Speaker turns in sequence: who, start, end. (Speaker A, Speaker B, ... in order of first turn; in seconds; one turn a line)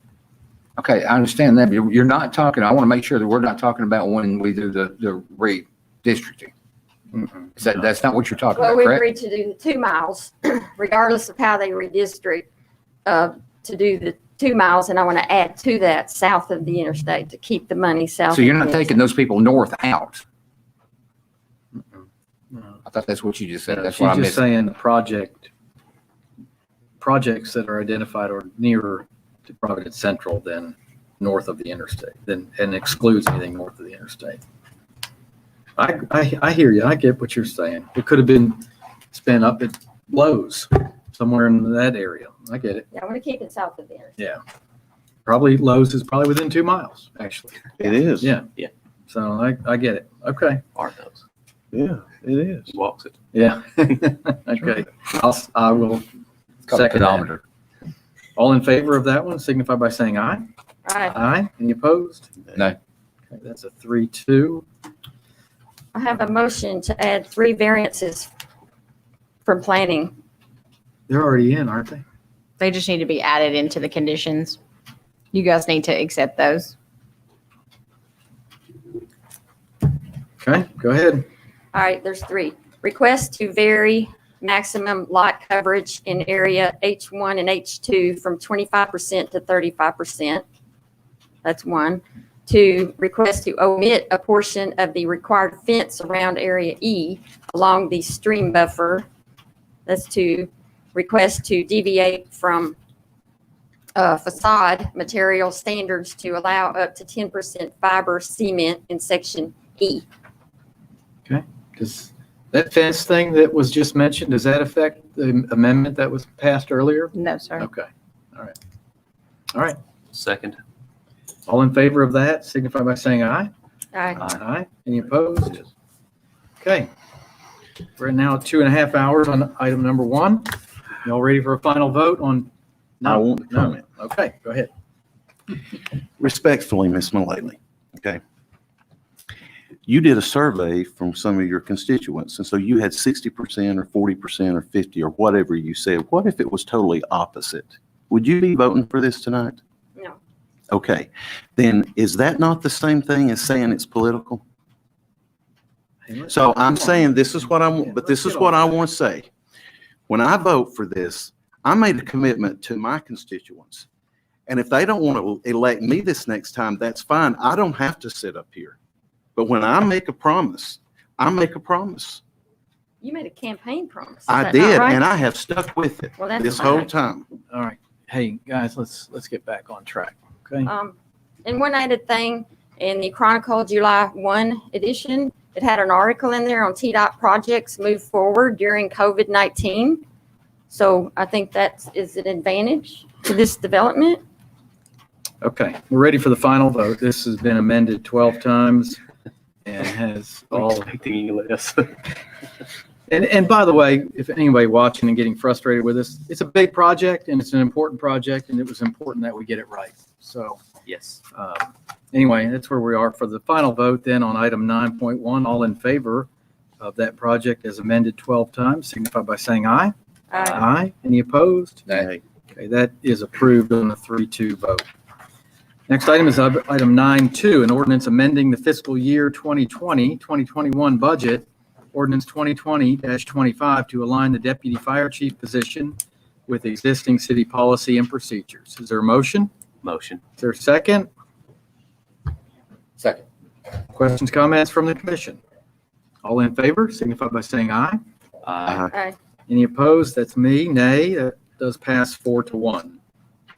Speaker A: 0.8-6.5
Speaker A: 7.5-9.0
Speaker B: 8.6-12.5
Speaker B: 13.1-18.9
Speaker A: 18.3-20.2
Speaker C: 22.5-22.8
Speaker A: 22.9-24.4
Speaker C: 23.7-25.5
Speaker C: 27.0-34.4
Speaker C: 35.8-42.9
Speaker B: 42.9-44.1
Speaker C: 45.2-48.5
Speaker D: 47.8-48.4
Speaker C: 49.1-50.6
Speaker E: 50.7-51.2
Speaker D: 51.7-52.7
Speaker E: 52.7-53.1
Speaker C: 53.3-56.0
Speaker A: 56.7-57.4
Speaker C: 56.7-57.3
Speaker C: 58.4-60.5
Speaker B: 60.8-61.1
Speaker C: 61.1-62.3
Speaker C: 63.3-64.6
Speaker B: 65.9-68.3
Speaker B: 69.5-70.1
Speaker C: 71.1-72.0
Speaker F: 72.6-74.6
Speaker F: 75.3-76.7
Speaker C: 80.4-81.2
Speaker B: 81.7-90.4
Speaker B: 91.4-99.0
Speaker B: 99.8-102.7
Speaker B: 104.0-110.0
Speaker C: 111.3-118.5
Speaker F: 117.1-117.7
Speaker E: 120.1-120.6
Speaker C: 121.5-123.5
Speaker B: 123.9-124.2
Speaker C: 124.2-125.7
Speaker C: 126.6-126.9
Speaker C: 128.0-130.5
Speaker C: 131.0-132.5
Speaker C: 133.0-134.7
Speaker D: 133.0-133.8
Speaker D: 136.2-138.2
Speaker D: 139.8-149.6
Speaker D: 150.7-154.4
Speaker C: 156.1-158.6
Speaker D: 156.3-159.3
Speaker D: 160.1-163.8
Speaker D: 164.5-168.8
Speaker D: 169.3-172.2
Speaker B: 173.0-175.0
Speaker D: 174.3-177.3
Speaker B: 176.2-176.9
Speaker C: 177.5-180.7
Speaker B: 180.6-190.0
Speaker B: 190.7-194.2
Speaker C: 195.4-199.0
Speaker C: 199.6-201.0
Speaker E: 200.9-201.8
Speaker C: 203.1-210.6
Speaker E: 210.8-211.2
Speaker C: 211.3-216.3
Speaker C: 216.8-219.9
Speaker B: 220.3-220.6
Speaker C: 220.5-221.9
Speaker C: 222.5-224.8
Speaker C: 225.9-239.5
Speaker E: 239.8-240.2
Speaker C: 240.4-241.1
Speaker A: 243.0-243.2
Speaker C: 243.9-245.4
Speaker C: 246.2-248.0
Speaker E: 248.4-248.8
Speaker B: 248.9-249.2
Speaker C: 249.5-253.0